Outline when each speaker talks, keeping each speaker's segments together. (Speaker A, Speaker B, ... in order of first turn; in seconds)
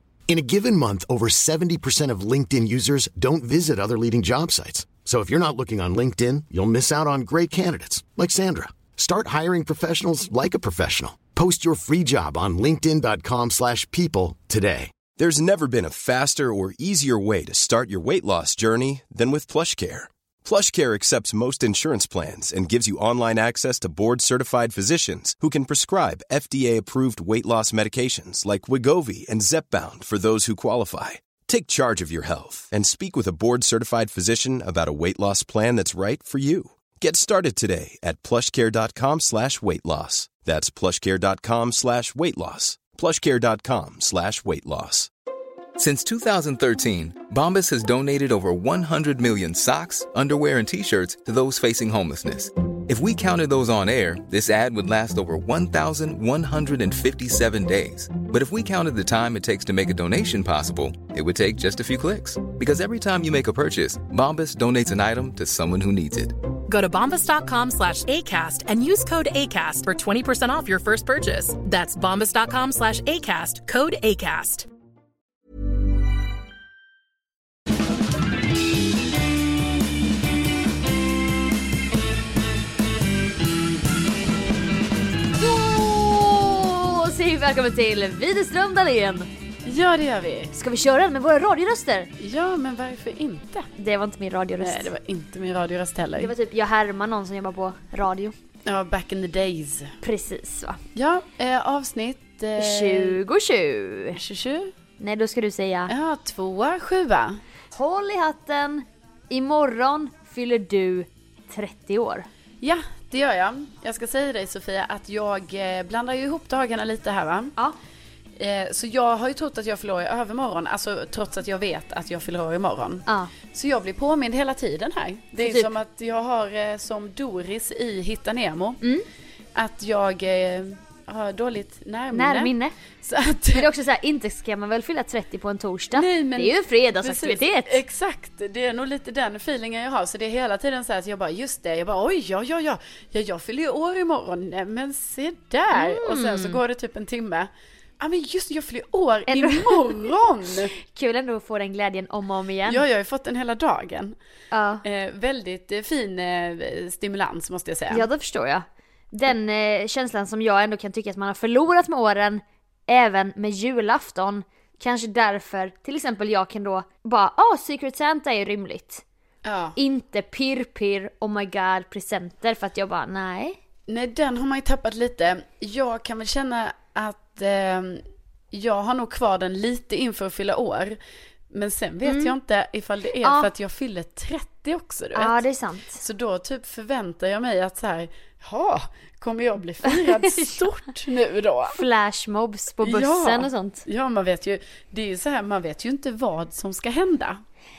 Speaker A: 0.3-15.0
Speaker B: 15.2-45.1
Speaker C: 45.8-66.4
Speaker D: 66.7-74.7
Speaker E: 85.4-89.3, 90.5-92.1, 93.8-94.9, 96.2-98.3, 100.0-100.8, 102.6-104.2, 105.0-105.9, 107.7-112.3, 123.1-123.3, 125.4-125.7, 132.1-132.7, 133.6-137.8, 145.7-146.6, 149.3-150.0, 150.8-152.8, 154.5-154.8, 157.9-169.0, 169.8-173.6, 182.1-182.3, 183.2-183.5, 185.2-186.0, 189.9-190.5, 191.7-193.8
Speaker F: 89.7-90.5, 92.2-93.7, 94.6-96.3, 98.7-100.0, 101.0-103.2, 104.1-104.7, 105.9-107.4, 112.6-117.5, 118.4-128.8, 129.6-133.7, 135.9-150.7, 152.7-154.2, 154.8-158.1, 169.4-169.8, 173.9-181.0, 181.5-185.4, 186.0-191.8, 192.8-197.4